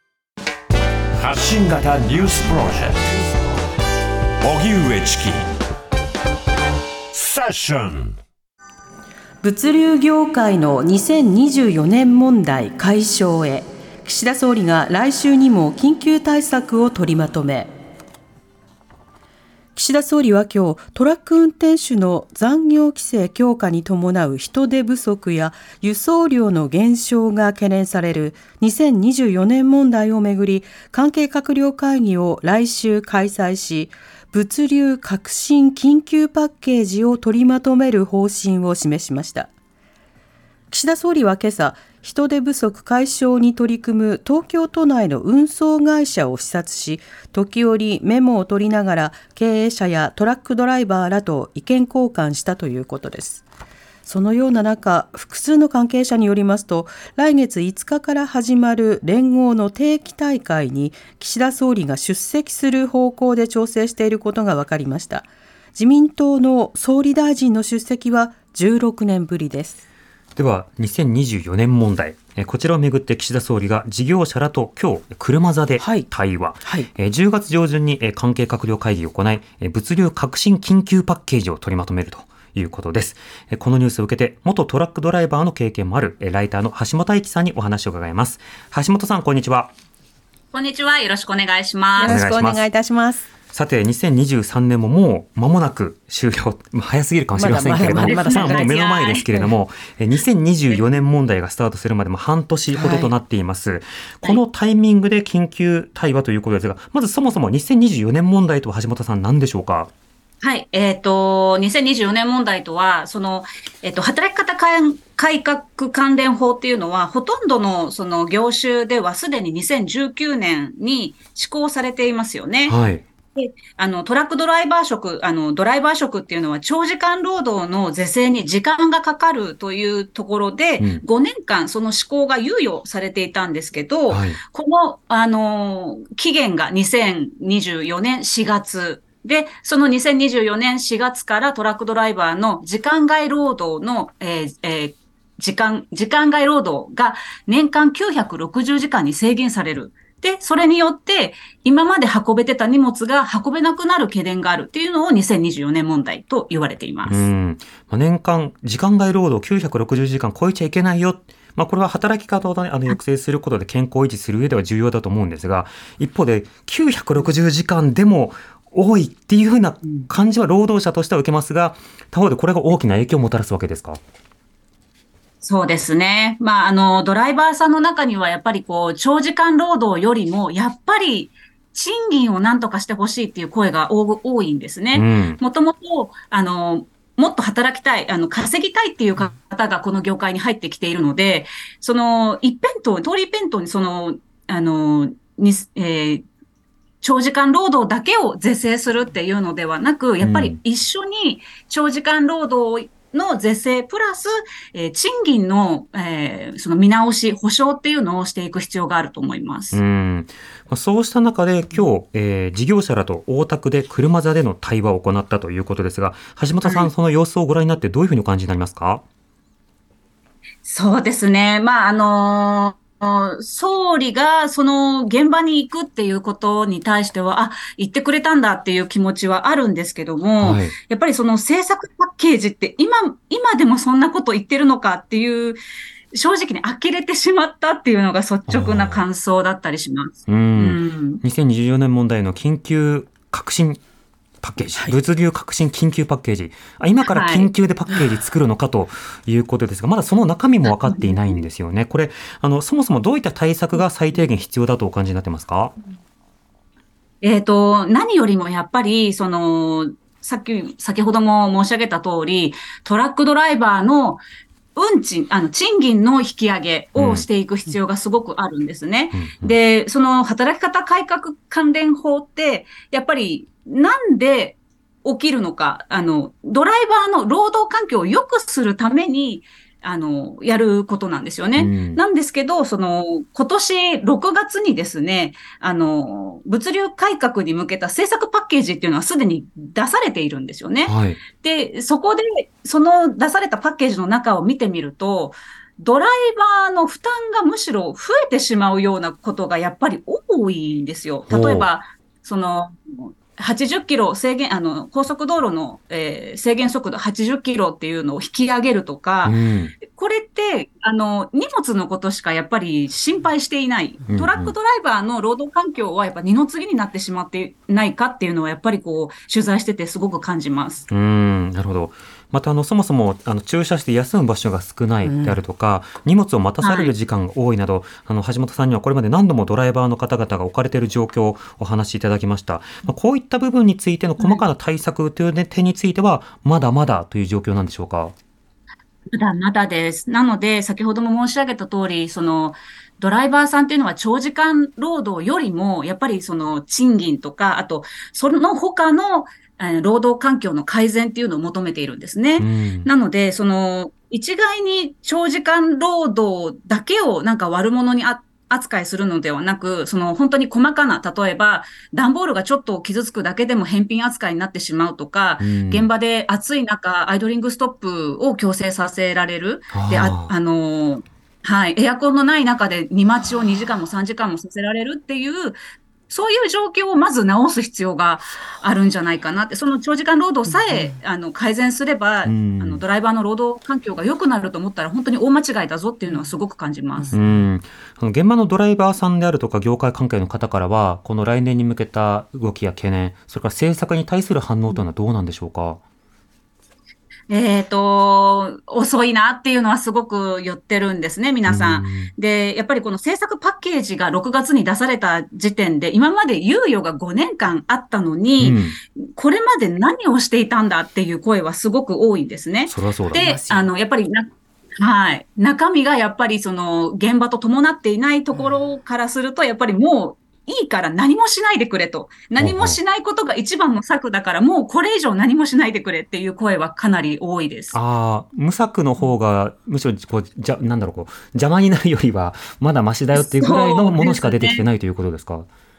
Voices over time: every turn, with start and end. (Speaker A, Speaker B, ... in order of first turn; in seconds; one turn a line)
Speaker A: 1.2-3.1
Speaker A: 4.4-5.5
Speaker A: 7.1-8.2
Speaker B: 9.4-17.7
Speaker B: 19.8-39.5
Speaker B: 40.7-53.4
Speaker B: 54.1-69.8
Speaker C: 70.4-89.7
Speaker B: 75.8-76.1
Speaker D: 90.5-92.2
Speaker B: 92.0-93.2
Speaker C: 92.1-92.7
Speaker C: 93.5-109.9
Speaker B: 97.3-98.7
Speaker D: 97.9-99.3
Speaker D: 100.7-101.0
Speaker B: 102.8-103.1
Speaker D: 110.4-122.8
Speaker C: 122.7-123.0
Speaker D: 123.3-157.3
Speaker C: 130.8-131.1
Speaker C: 134.1-134.4
Speaker C: 157.1-174.0
Speaker D: 175.4-196.2
Speaker C: 184.9-185.4
Speaker D: 197.0-209.8
Speaker C: 200.2-200.6
Speaker C: 209.7-219.0
Speaker D: 216.6-216.9
Speaker D: 220.6-235.6
Speaker C: 230.4-230.8
Speaker D: 236.1-241.2
Speaker C: 238.5-239.0
Speaker C: 240.3-243.8
Speaker C: 244.4-255.8
Speaker D: 247.1-247.5
Speaker D: 250.8-251.4
Speaker D: 257.2-264.2
Speaker D: 264.8-320.9
Speaker C: 267.0-267.3
Speaker C: 269.1-269.6
Speaker C: 281.6-282.0
Speaker C: 290.8-291.2
Speaker C: 301.3-301.7
Speaker C: 309.2-309.8
Speaker C: 314.1-314.5
Speaker C: 320.9-338.1
Speaker B: 325.1-325.4
Speaker D: 326.6-326.9
Speaker D: 339.1-375.6
Speaker C: 352.4-352.9
Speaker C: 365.4-365.9
Speaker C: 369.7-370.3
Speaker D: 376.1-387.1
Speaker B: 380.5-380.9
Speaker C: 382.2-382.8
Speaker B: 387.0-387.4
Speaker C: 387.1-395.8
Speaker D: 397.3-414.3
Speaker C: 401.5-402.1
Speaker C: 408.4-408.8
Speaker C: 412.7-413.3
Speaker B: 413.1-413.7
Speaker D: 414.8-427.8
Speaker C: 422.4-422.8
Speaker C: 427.7-435.5
Speaker D: 433.1-434.7